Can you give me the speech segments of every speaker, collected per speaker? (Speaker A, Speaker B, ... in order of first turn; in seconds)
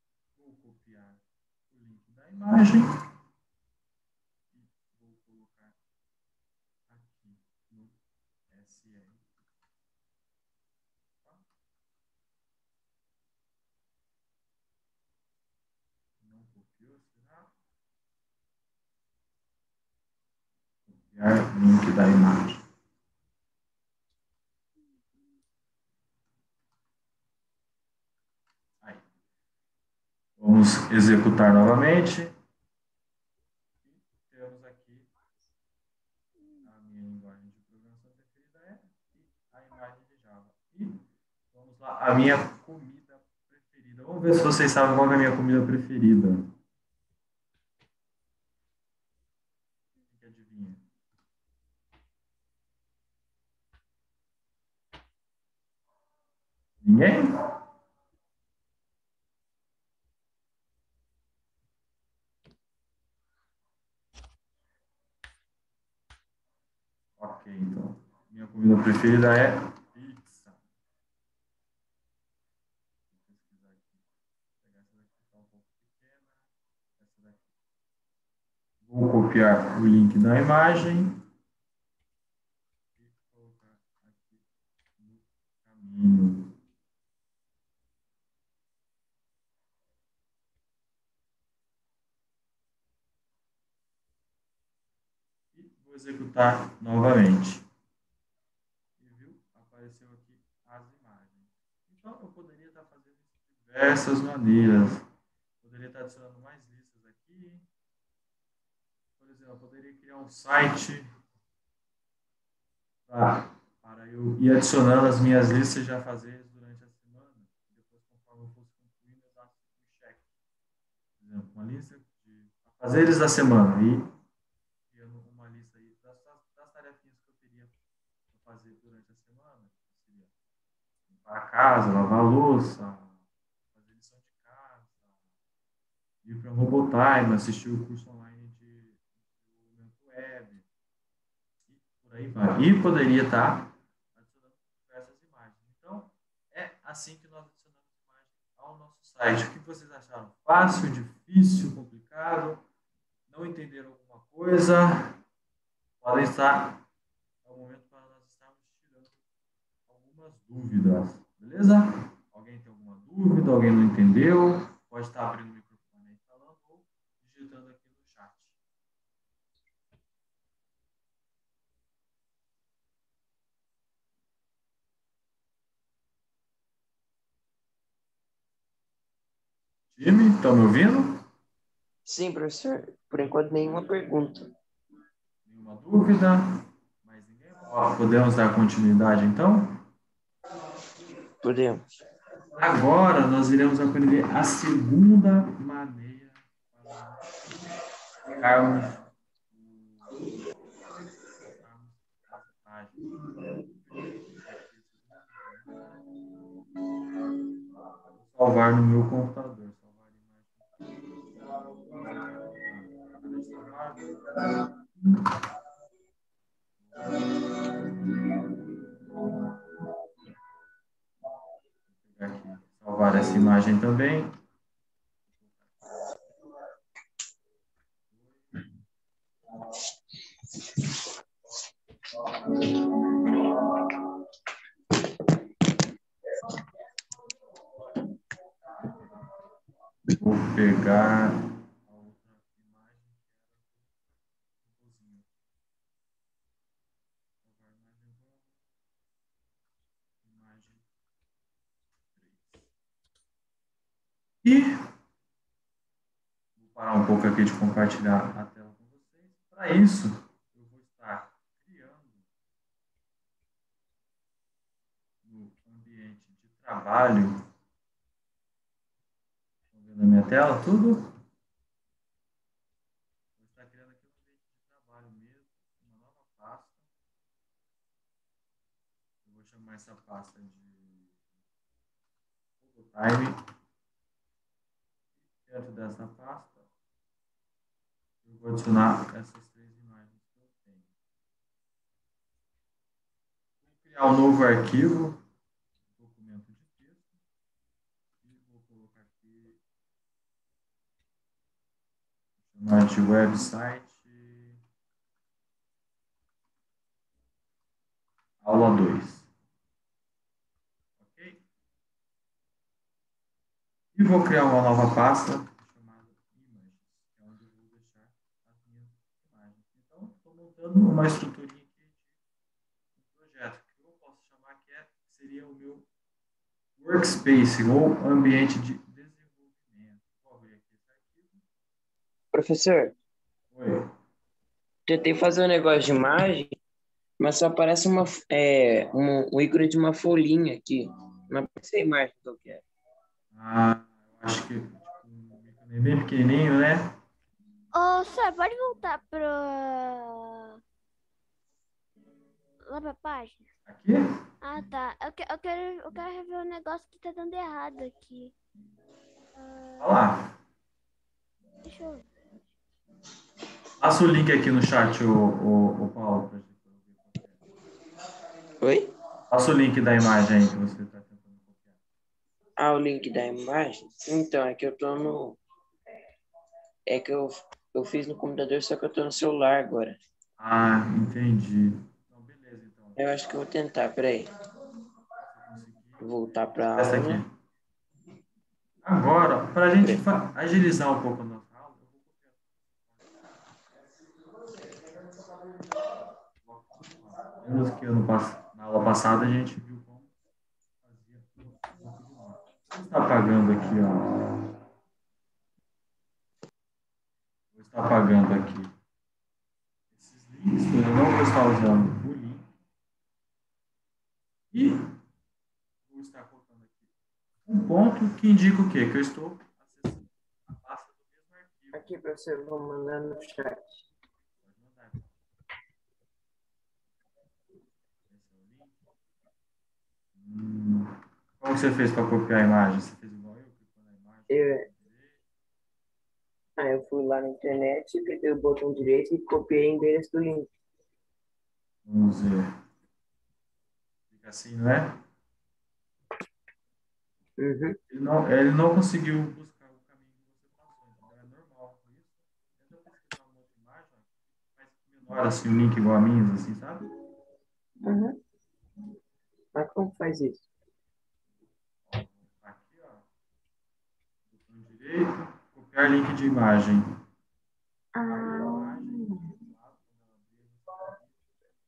Speaker A: 0.3-3.0, 4.5-5.8, 6.9-8.0, 8.5-9.3, 16.2-17.5, 20.9-22.6, 28.8-29.1, 30.4-32.3, 33.8-35.1, 36.6-46.5, 50.1-50.8, 56.8-57.3, 67.2-70.6, 73.1-74.0, 74.6-77.5, 78.8-81.2, 83.0-84.4, 85.0-86.5, 95.5-97.6, 99.0-105.1, 105.6-107.7, 109.2-111.1, 113.1-120.2, 121.2-124.1, 124.9-127.7, 128.3-130.3, 131.0-133.2, 133.7-135.1, 136.2-140.6, 141.7-152.6, 153.3-155.2, 156.0-156.8, 157.4-159.2, 159.9-168.6, 179.9-181.2, 185.4-189.8, 192.5-197.4, 198.3-200.3, 201.3-203.2, 203.7-206.0, 208.1-215.3, 216.8-218.2, 221.9-224.4, 225.3-225.8, 228.1-228.6, 240.1-243.9, 244.6-245.3, 247.4-248.5, 250.2-250.8, 252.1-252.7, 254.4-254.8, 256.6-262.3, 265.2-267.4, 269.7-271.1, 273.4-276.9, 279.2-281.2, 282.6-283.4, 285.2-286.7, 288.2-290.9, 293.6-295.2, 295.9-297.2, 298.2-299.6, 302.4-304.6, 308.4-309.3, 311.0-311.4, 313.9-322.1, 322.9-325.9, 326.8-331.4, 333.5-333.9, 343.3-346.9, 353.7-354.0, 359.8-360.3, 363.8-367.4, 369.3-371.8, 380.4-383.0, 385.2-387.3, 388.8-393.2, 396.4-400.1, 400.8-404.4, 407.5-408.7, 409.9-412.5, 414.5-414.9, 415.9-416.9, 417.4-421.9, 424.4-425.2, 428.1-428.8, 430.1-435.2, 441.8-442.4, 444.1-445.0, 447.9-456.9, 461.9-463.1, 464.3-466.9, 468.1-471.2
Speaker B: 36.4-36.6, 347.7-350.6, 352.6-353.5, 354.4-358.3, 359.4-359.9, 361.6-362.1
Speaker C: 182.1-184.5, 191.4-191.9, 332.3-332.9, 334.9-336.6, 337.2-342.6, 368.6-368.9, 372.6-375.4, 376.9-380.0, 383.0-384.3, 386.0-387.2, 421.7-423.9, 434.3-434.7, 436.6-440.5, 447.4-447.8, 457.8-458.1, 459.5-460.4, 467.9-469.2